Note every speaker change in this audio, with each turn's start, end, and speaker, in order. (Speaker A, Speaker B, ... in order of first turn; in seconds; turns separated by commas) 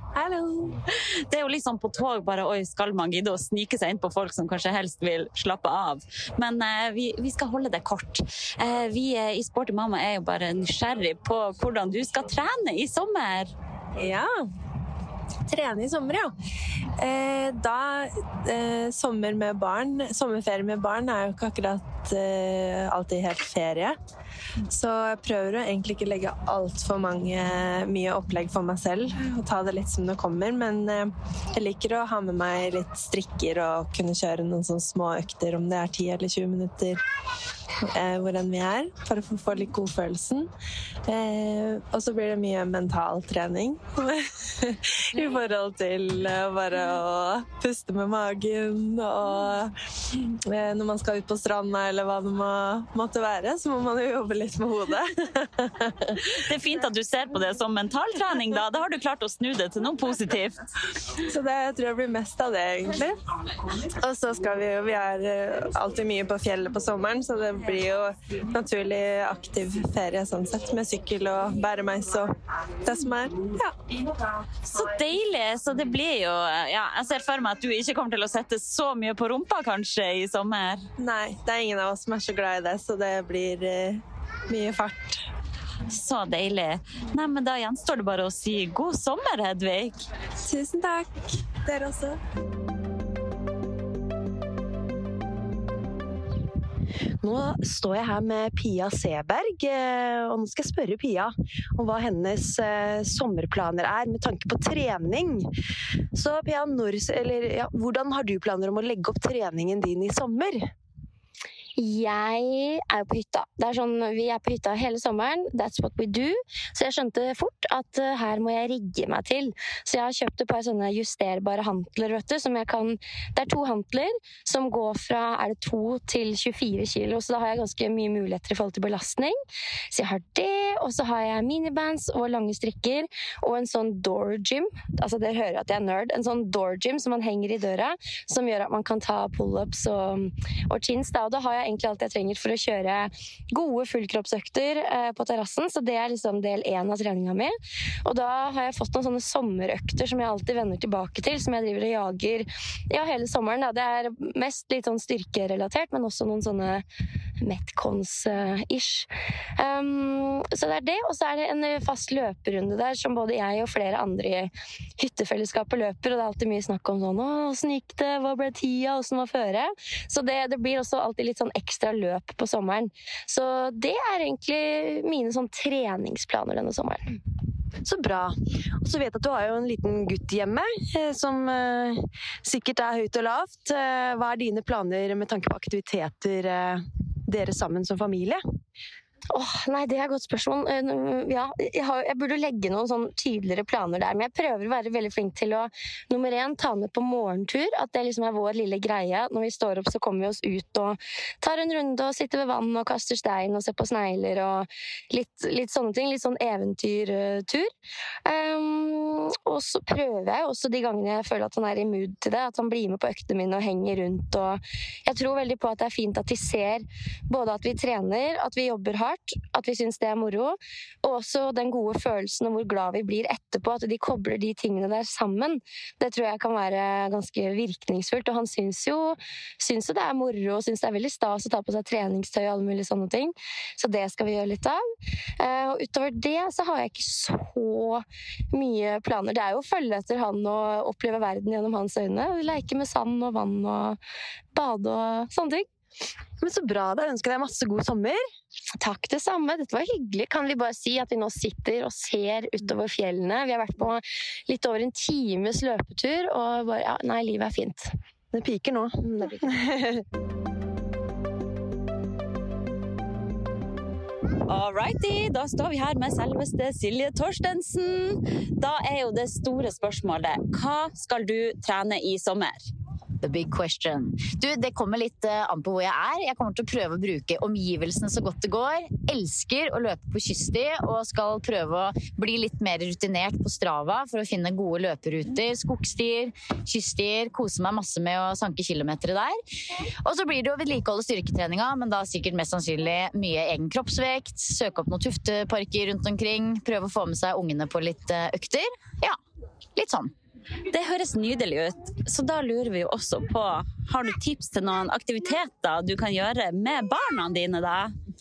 Speaker A: 0.2-0.7, Speaker B: 0.9-13.5, Speaker A: 14.0-14.4, Speaker A: 15.5-16.3, Speaker A: 17.0-24.0, Speaker A: 24.7-37.0, Speaker A: 37.9-40.5, Speaker A: 41.1-56.2, Speaker B: 56.2-60.6, Speaker A: 61.2-63.2, Speaker A: 63.9-72.3, Speaker A: 72.8-73.8, Speaker B: 74.7-80.9, Speaker A: 81.0-85.3, Speaker B: 85.9-90.1, Speaker A: 90.4-92.2, Speaker C: 97.2-105.5, Speaker C: 106.1-110.7, Speaker D: 111.8-129.4, Speaker D: 129.9-156.8, Speaker D: 157.4-177.2, Speaker C: 177.8-188.4, Speaker D: 189.3-207.7, Speaker D: 208.2-234.8, Speaker D: 235.4-244.0, Speaker D: 244.5-245.7, Speaker C: 246.4-248.2, Speaker D: 248.8-257.9, Speaker C: 258.3-260.0, Speaker B: 264.5-272.7, Speaker E: 273.2-289.4, Speaker E: 290.0-299.2, Speaker E: 299.8-300.1, Speaker B: 300.7-307.9